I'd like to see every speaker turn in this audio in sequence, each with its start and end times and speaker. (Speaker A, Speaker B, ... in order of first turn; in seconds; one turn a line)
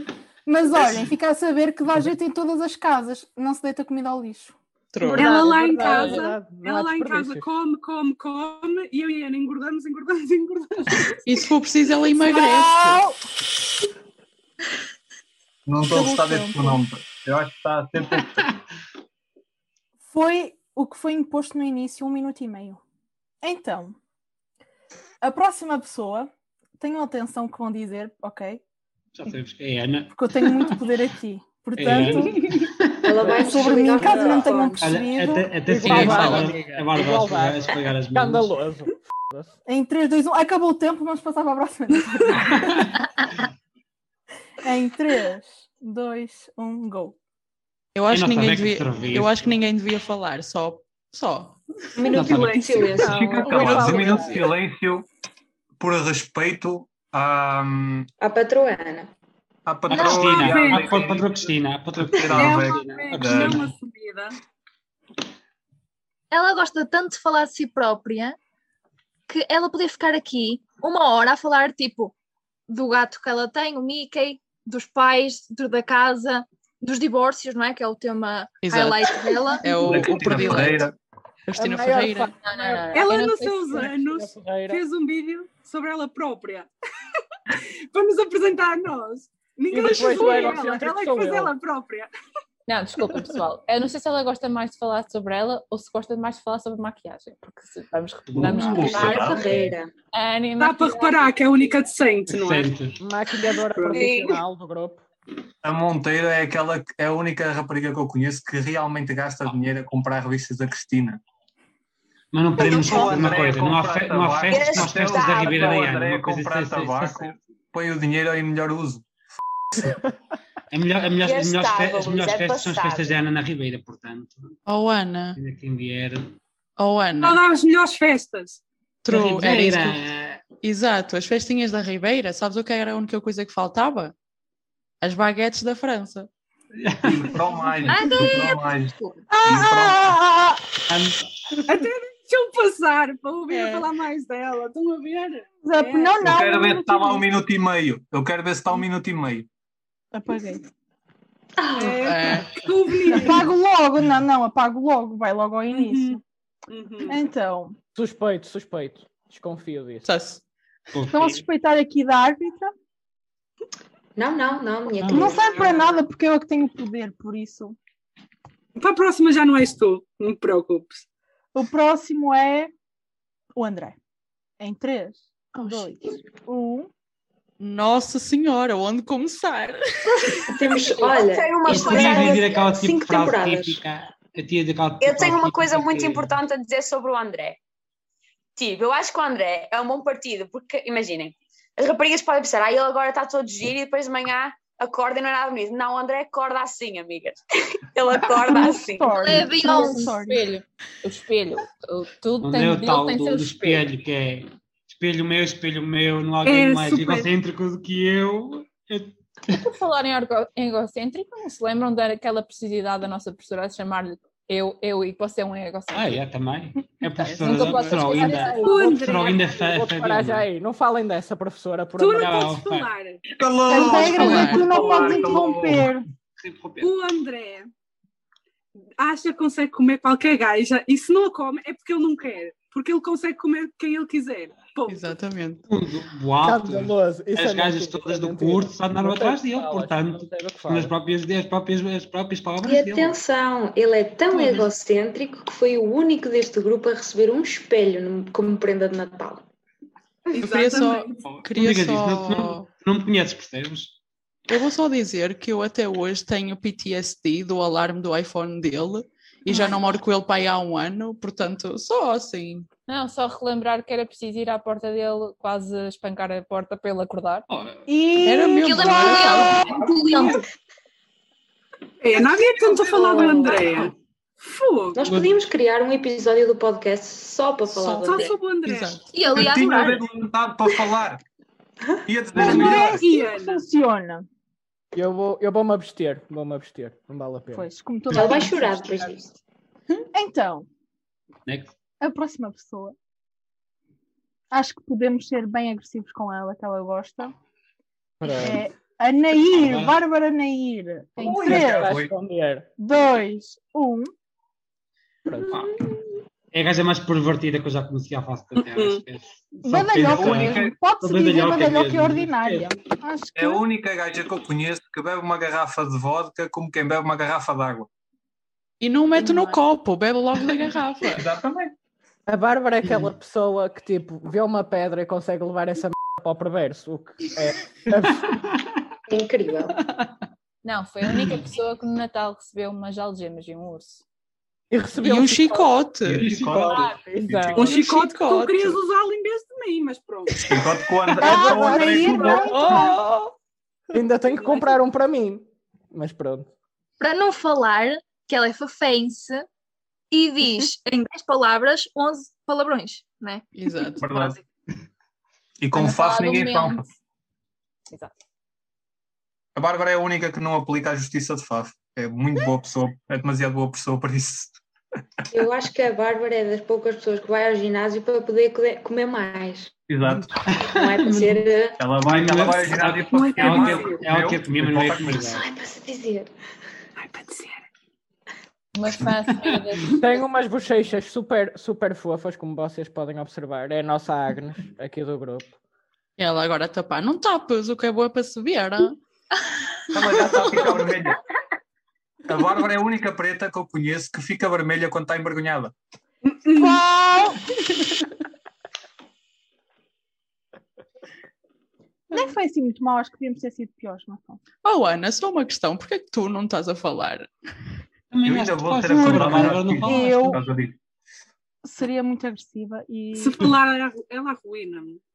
Speaker A: 0.5-4.6
Speaker B: 4.9-5.6
Speaker C: 5.1-7.5
Speaker D: 5.2-11.1
Speaker B: 11.2-13.0
Speaker A: 12.2-13.2
Speaker E: 15.7-18.5
Speaker A: 15.9-16.8
Speaker F: 18.2-18.5
Speaker A: 20.1-22.8
Speaker A: 23.4-24.0
Speaker A: 25.2-28.6
Speaker F: 29.1-30.7
Speaker A: 30.1-32.4
Speaker F: 31.8-33.7
Speaker G: 33.0-34.8
Speaker A: 33.4-35.5
Speaker C: 34.0-34.5
Speaker F: 34.8-38.5
Speaker C: 35.6-39.5
Speaker B: 35.9-36.6
Speaker A: 39.7-42.8
Speaker A: 44.6-47.2
Speaker B: 48.0-51.6
Speaker F: 48.1-49.6
Speaker G: 52.0-53.9
Speaker F: 52.1-53.0
Speaker D: 52.1-52.8
Speaker E: 53.0-55.1
Speaker C: 53.0-54.5
Speaker B: 53.9-54.3
Speaker E: 55.8-58.1
Speaker G: 58.2-59.1
Speaker E: 59.7-63.6
Speaker F: 59.9-63.7
Speaker H: 60.0-60.3
Speaker D: 60.4-61.0
Speaker D: 62.3-64.3
Speaker H: 66.3-68.4
Speaker H: 69.3-72.1
Speaker H: 72.7-80.7
Speaker B: 78.6-80.9
Speaker E: 79.8-81.0
Speaker B: 81.5-82.3
Speaker C: 81.6-84.8
Speaker I: 82.4-83.9
Speaker D: 82.9-86.7
Speaker D: 87.9-92.1
Speaker C: 89.7-91.5
Speaker I: 92.7-99.4
Speaker F: 98.3-99.6
Speaker E: 98.4-99.7
Speaker G: 98.5-99.9
Speaker I: 100.1-101.8
Speaker D: 100.6-102.7
Speaker F: 102.3-103.0
Speaker C: 103.0-105.0
Speaker D: 103.6-104.3
Speaker J: 103.9-104.4
Speaker E: 105.6-111.2
Speaker F: 112.3-117.4
Speaker E: 112.6-119.0
Speaker J: 114.5-115.7
Speaker F: 120.7-124.5
Speaker J: 121.2-123.2
Speaker B: 124.7-125.4
Speaker F: 125.4-126.4
Speaker B: 126.8-127.4
Speaker D: 127.2-128.6
Speaker B: 129.0-130.0
Speaker F: 129.1-130.4
Speaker B: 130.6-134.1
Speaker B: 135.0-136.3
Speaker F: 136.8-137.5
Speaker E: 137.0-140.2
Speaker H: 137.9-139.3
Speaker A: 139.3-140.6
Speaker F: 140.9-141.8
Speaker D: 141.7-146.3
Speaker B: 143.5-143.9
Speaker A: 145.6-147.2
Speaker E: 146.2-149.5
Speaker A: 150.1-150.6
Speaker G: 151.6-152.4
Speaker D: 151.8-153.5
Speaker B: 152.0-152.6
Speaker A: 153.1-156.2
Speaker D: 155.7-157.2
Speaker A: 157.1-157.8
Speaker C: 157.9-160.1
Speaker B: 160.1-160.4
Speaker F: 160.9-161.4
Speaker A: 161.1-162.7
Speaker G: 164.2-165.6
Speaker F: 165.0-165.7
Speaker A: 165.1-167.8
Speaker D: 168.8-171.0
Speaker A: 171.5-172.7
Speaker A: 173.6-174.0
Speaker A: 174.6-176.9
Speaker B: 177.6-180.4
Speaker G: 180.4-183.8
Speaker J: 181.1-182.5
Speaker F: 181.7-186.4
Speaker J: 185.0-187.6
Speaker J: 188.6-199.2
Speaker A: 198.4-200.5
Speaker H: 199.1-200.1
Speaker I: 199.5-203.9
Speaker F: 202.4-209.7
Speaker D: 206.4-207.3
Speaker I: 209.6-216.2
Speaker F: 215.9-220.5
Speaker B: 217.2-217.9
Speaker I: 217.4-218.8
Speaker C: 217.9-222.6
Speaker D: 218.5-219.5
Speaker D: 222.0-223.2
Speaker F: 222.2-222.9
Speaker E: 223.3-225.9
Speaker A: 223.7-226.1
Speaker B: 223.7-224.7
Speaker F: 226.4-226.9
Speaker D: 226.8-227.7
Speaker D: 229.0-235.2
Speaker B: 234.9-235.7
Speaker F: 235.7-243.2
Speaker C: 236.4-240.9
Speaker G: 242.6-249.5
Speaker D: 244.3-244.6
Speaker D: 250.3-251.3
Speaker B: 250.4-252.7
Speaker F: 251.2-254.0
Speaker B: 254.5-262.7
Speaker I: 262.9-267.5
Speaker F: 267.5-267.9
Speaker A: 267.9-269.7
Speaker B: 268.2-269.8
Speaker H: 268.6-270.4
Speaker D: 272.0-275.0
Speaker G: 272.3-273.9
Speaker G: 274.9-278.4
Speaker F: 275.0-275.4
Speaker B: 277.7-279.4
Speaker D: 278.0-279.1
Speaker H: 279.1-280.1
Speaker E: 279.3-281.2
Speaker E: 282.1-283.0
Speaker A: 282.3-284.3
Speaker D: 282.4-283.6
Speaker C: 284.9-287.7
Speaker A: 287.5-289.1
Speaker G: 288.1-289.4
Speaker A: 290.1-290.7
Speaker F: 291.5-291.8
Speaker A: 292.0-292.9
Speaker A: 294.5-297.3
Speaker C: 298.2-298.6
Speaker A: 298.3-301.9
Speaker F: 299.5-299.9
Speaker E: 301.2-302.1
Speaker C: 301.4-302.7
Speaker A: 302.8-304.1
Speaker C: 305.3-305.6
Speaker F: 305.5-305.8
Speaker F: 306.5-312.8
Speaker D: 308.6-309.0
Speaker A: 309.6-313.6
Speaker E: 310.1-310.8
Speaker E: 313.4-317.9
Speaker B: 318.8-321.3
Speaker E: 321.1-321.7
Speaker C: 322.3-328.4
Speaker G: 329.1-329.8
Speaker I: 330.6-334.0
Speaker C: 334.7-335.7
Speaker B: 335.0-336.3
Speaker E: 336.1-337.8
Speaker F: 336.1-336.9
Speaker I: 336.7-337.0
Speaker C: 336.7-337.7
Speaker D: 337.6-340.5
Speaker B: 337.6-338.8
Speaker E: 340.4-342.9
Speaker A: 341.2-342.9
Speaker C: 341.2-342.9
Speaker B: 342.5-343.3
Speaker C: 343.9-346.5
Speaker D: 344.4-344.7
Speaker H: 347.0-349.5
Speaker H: 350.1-353.5
Speaker B: 353.6-354.3
Speaker E: 354.0-354.4
Speaker H: 354.0-354.4
Speaker E: 355.6-356.9
Speaker I: 355.7-356.9
Speaker I: 357.9-358.1
Speaker E: 359.6-364.6
Speaker G: 365.3-369.7
Speaker E: 369.9-370.4
Speaker F: 370.5-371.5
Speaker G: 370.7-371.8
Speaker E: 371.8-375.2
Speaker F: 372.0-375.5
Speaker D: 373.1-374.0
Speaker G: 375.1-376.3
Speaker D: 377.0-377.7
Speaker I: 378.8-380.1
Speaker F: 379.4-380.0
Speaker C: 379.9-385.5
Speaker B: 386.2-389.0
Speaker E: 389.9-391.2
Speaker E: 392.3-395.7
Speaker D: 396.2-396.8
Speaker A: 396.6-397.4
Speaker A: 402.1-404.4
Speaker B: 404.6-407.3
Speaker F: 408.1-410.4
Speaker E: 408.2-410.8
Speaker A: 408.9-410.4
Speaker A: 411.6-413.4
Speaker D: 413.2-415.0